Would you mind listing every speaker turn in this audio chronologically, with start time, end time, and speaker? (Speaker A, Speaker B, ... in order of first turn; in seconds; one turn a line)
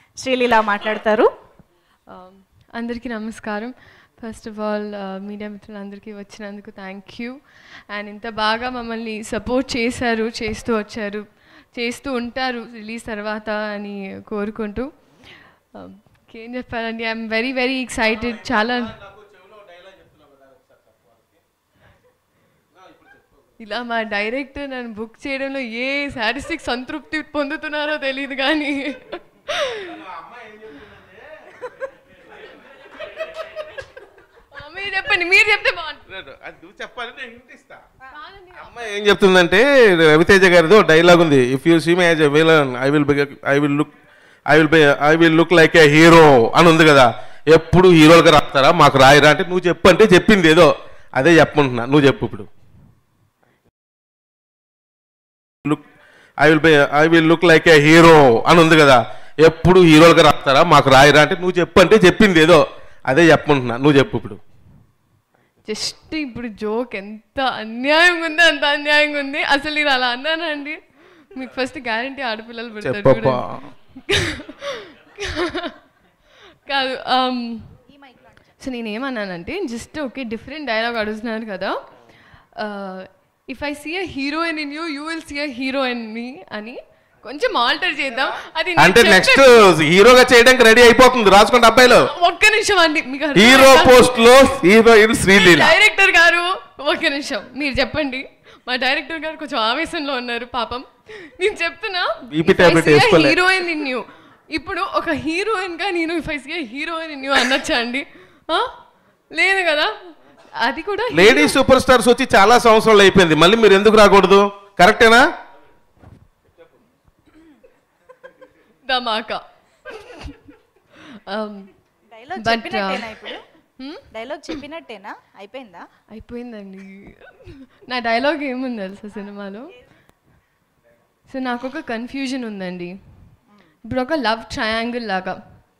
Speaker A: 0.2-1.3
Speaker B: 2.1-7.4
Speaker B: 7.9-14.9
Speaker B: 15.7-19.0
Speaker C: 18.2-21.3
Speaker C: 22.8-23.3
Speaker B: 23.6-30.0
Speaker C: 29.9-31.5
Speaker B: 34.5-36.1
Speaker C: 36.1-37.8
Speaker B: 38.1-39.0
Speaker C: 38.6-43.9
Speaker C: 44.5-52.5
Speaker C: 56.4-64.4
Speaker B: 65.6-70.8
Speaker B: 71.3-75.8
Speaker C: 72.8-73.7
Speaker B: 76.7-77.8
Speaker A: 77.9-78.5
Speaker B: 78.6-81.8
Speaker B: 82.5-89.6
Speaker C: 88.8-92.1
Speaker B: 92.0-94.2
Speaker C: 93.3-95.7
Speaker B: 95.3-108.7
Speaker C: 102.3-103.4
Speaker B: 109.3-109.9
Speaker B: 110.6-111.6
Speaker C: 111.1-115.2
Speaker B: 118.8-120.4
Speaker B: 121.3-121.7
Speaker A: 122.1-123.4
Speaker B: 122.4-123.1
Speaker B: 123.8-124.5
Speaker A: 124.1-125.8
Speaker B: 126.1-129.7
Speaker B: 131.3-132.9
Speaker B: 133.9-135.4